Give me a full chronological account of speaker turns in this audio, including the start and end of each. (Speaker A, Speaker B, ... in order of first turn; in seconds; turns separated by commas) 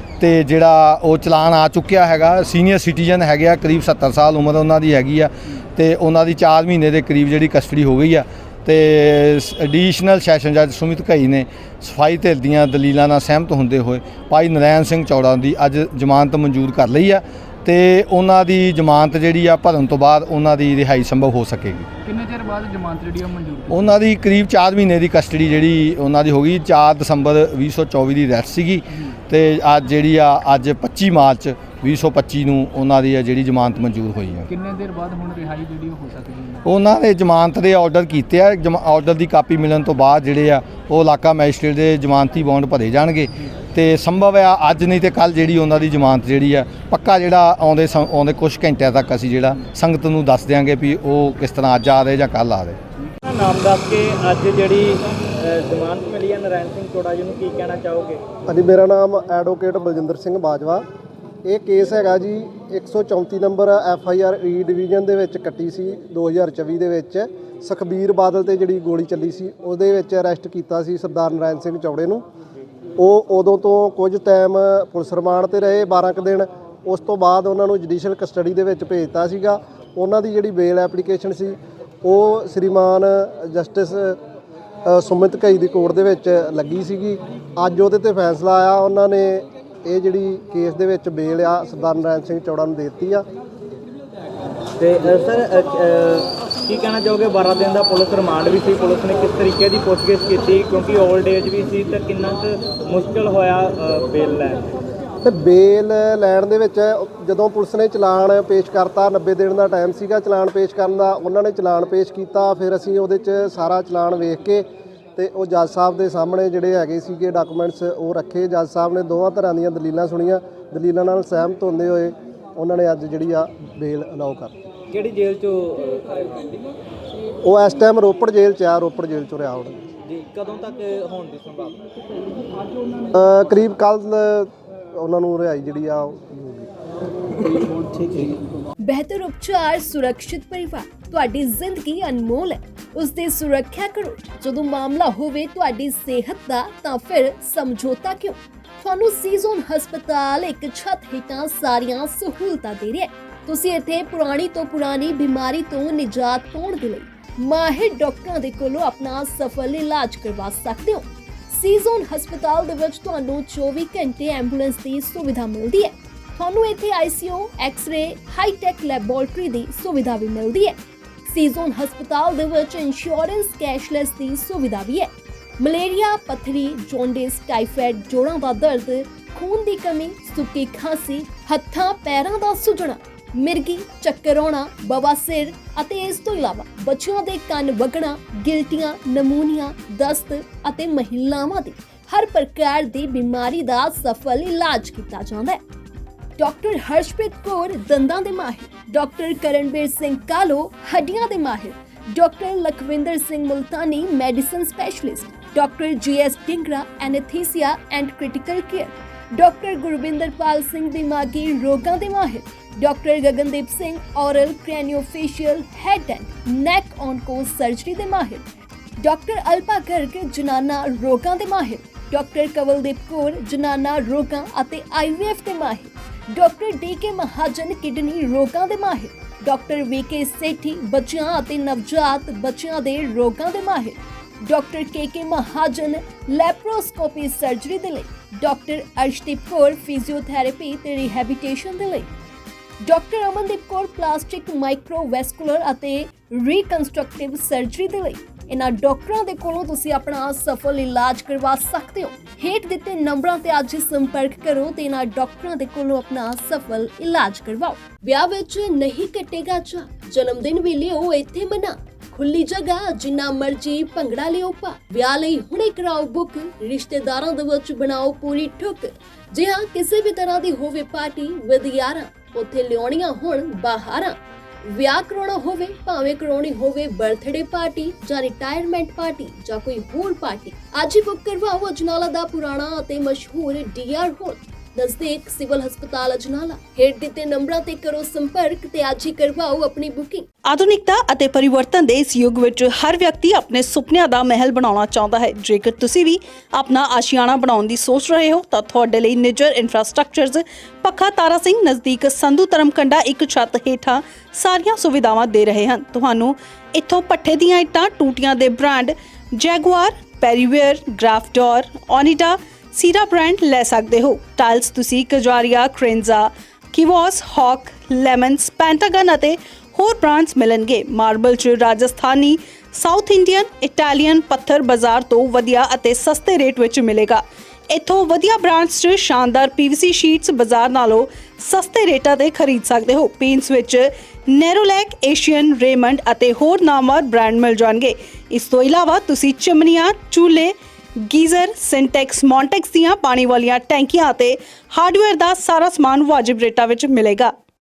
Speaker A: 0.2-21.9, Speaker B: 22.1-24.0, Speaker A: 23.7-34.5, Speaker B: 34.5-36.7, Speaker A: 36.6-52.8, Speaker C: 53.2-58.2, Speaker D: 58.5-60.8, Speaker D: 61.5-72.2, Speaker D: 73.0-84.2, Speaker D: 84.9-93.2, Speaker C: 94.8-104.7, Speaker D: 105.2-114.7, Speaker D: 115.2-124.5, Speaker C: 124.9-126.4, Speaker D: 127.5-129.8, Speaker C: 130.1-131.8, Speaker D: 133.2-134.5, Speaker D: 135.0-136.4, Speaker E: 138.8-195.6, Speaker E: 196.4-218.4, Speaker E: 219.0-242.1, Speaker E: 242.9-290.3, Speaker F: 290.5-340.5, Speaker F: 341.1-347.3